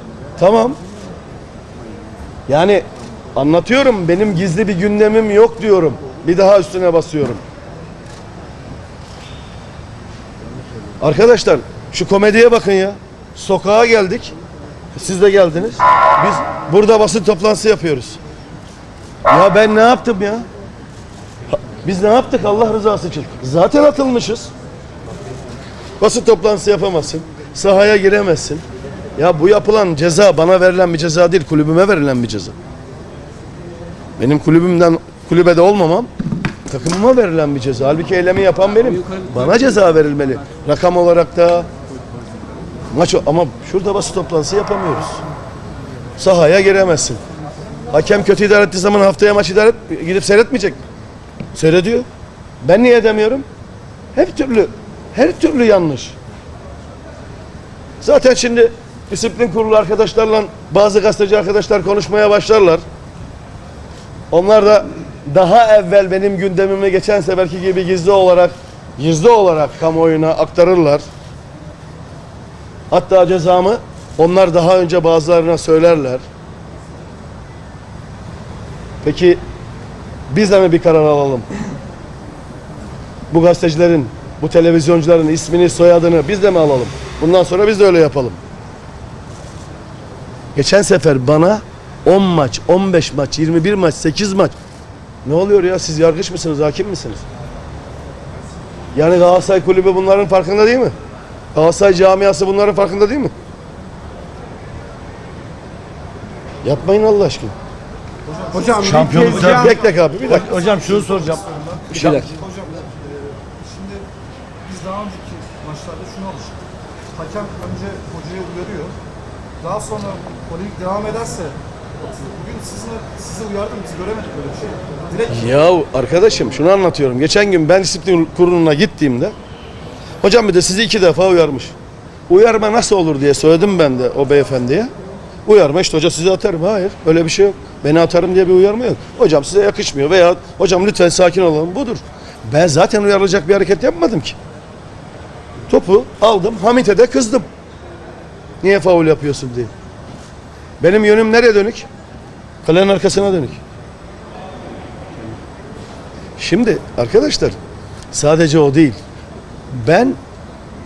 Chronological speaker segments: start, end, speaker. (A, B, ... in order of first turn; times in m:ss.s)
0:00.4-0:00.8 A
0:02.5-0:02.8 A
0:03.4-0:07.4 A
0:11.0-0:14.4 A
0:14.9-0:18.2 A
0:19.3-0:20.5 A
0:21.5-0:24.5 A
0:26.0-0:28.6 A
0:29.2-0:32.5 A
0:34.2-0:36.1 A
0:36.7-0:41.7 A
0:42.9-0:45.2 A
0:46.2-0:47.2 A
0:47.9-0:50.8 A
0:51.6-0:52.1 A
0:52.6-0:53.4 A
0:54.2-0:56.2 A
0:58.0-1:02.8 A
1:04.3-1:11.0 A
1:12.9-1:16.2 A
1:19.0-1:19.4 A
1:20.3-1:21.5 A
1:23.3-1:28.4 A
1:30.6-1:34.5 A
1:35.2-1:37.2 A
1:39.0-1:40.9 A
1:41.5-1:43.3 A
1:46.6-1:47.6 A
1:48.3-1:49.5 B
1:48.7-1:52.4 C
1:48.8-1:50.5 A
1:50.7-1:54.0 B
1:51.9-1:52.3 A
1:54.6-1:56.6 B
1:57.2-1:59.0 B
1:59.6-2:01.6 B
2:02.2-2:05.2 B
2:05.3-2:09.3 A
2:10.2-2:11.8 A
2:12.3-2:14.9 A
2:15.5-2:24.4 A
2:25.7-2:27.4 A
2:28.6-2:29.7 A
2:30.8-2:31.9 A
2:32.6-2:33.6 A
2:36.4-2:37.6 A
2:38.1-2:39.0 A
2:39.7-2:40.2 A